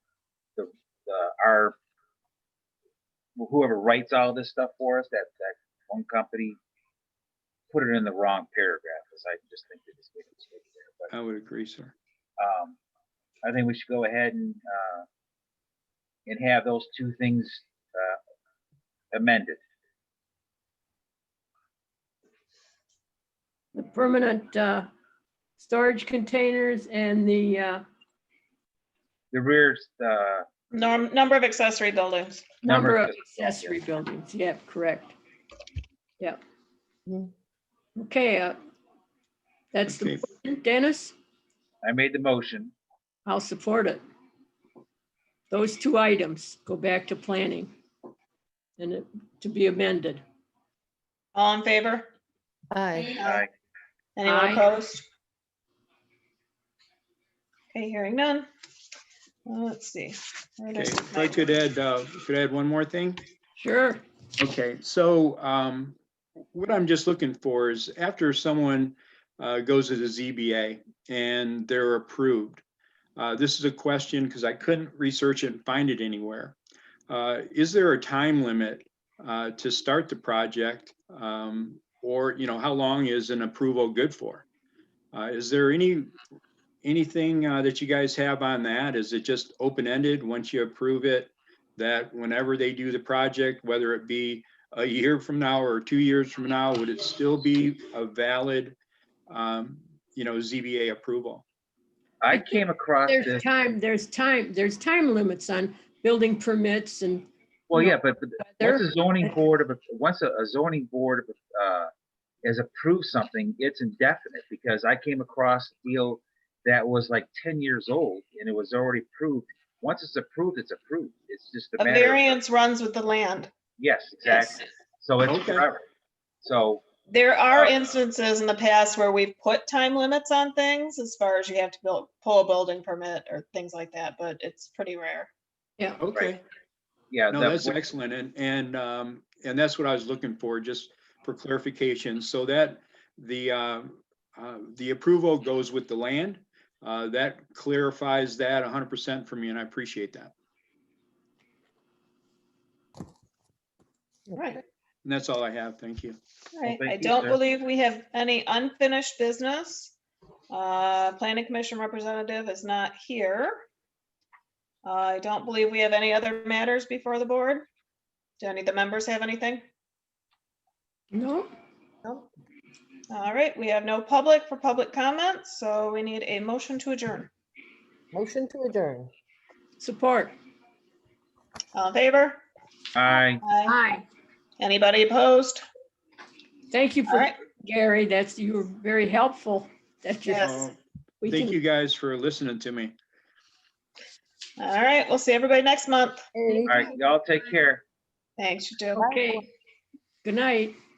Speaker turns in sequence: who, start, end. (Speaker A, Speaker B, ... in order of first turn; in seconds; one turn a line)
Speaker A: 0.6-1.8
Speaker A: 3.4-6.6
Speaker A: 7.7-11.1
Speaker B: 11.1-11.9
Speaker A: 12.4-12.8
Speaker A: 13.4-15.1
Speaker A: 16.3-18.2
Speaker A: 19.1-19.6
Speaker C: 23.8-24.9
Speaker C: 25.6-27.8
Speaker A: 29.3-30.5
Speaker D: 30.7-32.5
Speaker C: 32.6-35.1
Speaker A: 32.6-33.8
Speaker C: 38.0-38.6
Speaker C: 39.7-41.1
Speaker B: 39.9-40.3
Speaker A: 41.8-42.7
Speaker C: 43.3-44.0
Speaker C: 45.5-47.7
Speaker C: 48.8-50.2
Speaker D: 51.4-52.1
Speaker E: 52.8-53.0
Speaker D: 53.1-53.4
Speaker A: 53.2-53.5
Speaker D: 54.2-55.1
Speaker C: 54.3-54.7
Speaker D: 57.7-58.5
Speaker D: 59.5-61.5
Speaker B: 60.8-63.2
Speaker C: 63.6-64.0
Speaker B: 64.4-66.0
Speaker B: 66.5-72.6
Speaker B: 73.2-76.6
Speaker B: 77.1-84.5
Speaker B: 85.1-86.2
Speaker B: 86.8-98.8
Speaker B: 99.3-101.5
Speaker A: 102.2-103.5
Speaker C: 102.3-109.2
Speaker A: 107.7-111.9
Speaker A: 112.4-122.4
Speaker D: 121.8-123.5
Speaker A: 123.8-125.8
Speaker D: 124.2-124.5
Speaker B: 125.2-125.7
Speaker A: 126.4-126.8
Speaker D: 127.1-135.3
Speaker A: 127.5-127.8
Speaker B: 136.0-136.4
Speaker A: 137.1-137.9
Speaker B: 137.3-150.3
Speaker D: 154.4-154.6
Speaker B: 155.0-156.2
Speaker D: 156.5-159.9
Speaker A: 156.6-157.4
Speaker D: 160.5-163.6
Speaker D: 164.8-167.7
Speaker D: 168.4-169.7
Speaker C: 171.1-171.5
Speaker D: 173.1-177.3
Speaker E: 178.1-179.1
Speaker C: 179.8-180.4
Speaker D: 181.7-182.4
Speaker A: 182.9-183.4
Speaker D: 183.4-183.8
Speaker C: 183.7-184.1
Speaker D: 184.6-185.6
Speaker C: 186.7-190.6
Speaker D: 187.1-187.3
Speaker D: 190.2-190.7
Speaker B: 190.3-192.9
Speaker C: 191.2-191.6
Speaker D: 194.6-196.2
Speaker E: 196.3-196.9
Speaker A: 196.7-197.8
Speaker D: 198.4-199.1
Speaker E: 199.0-199.4
Speaker C: 199.0-199.5
Speaker C: 200.2-200.8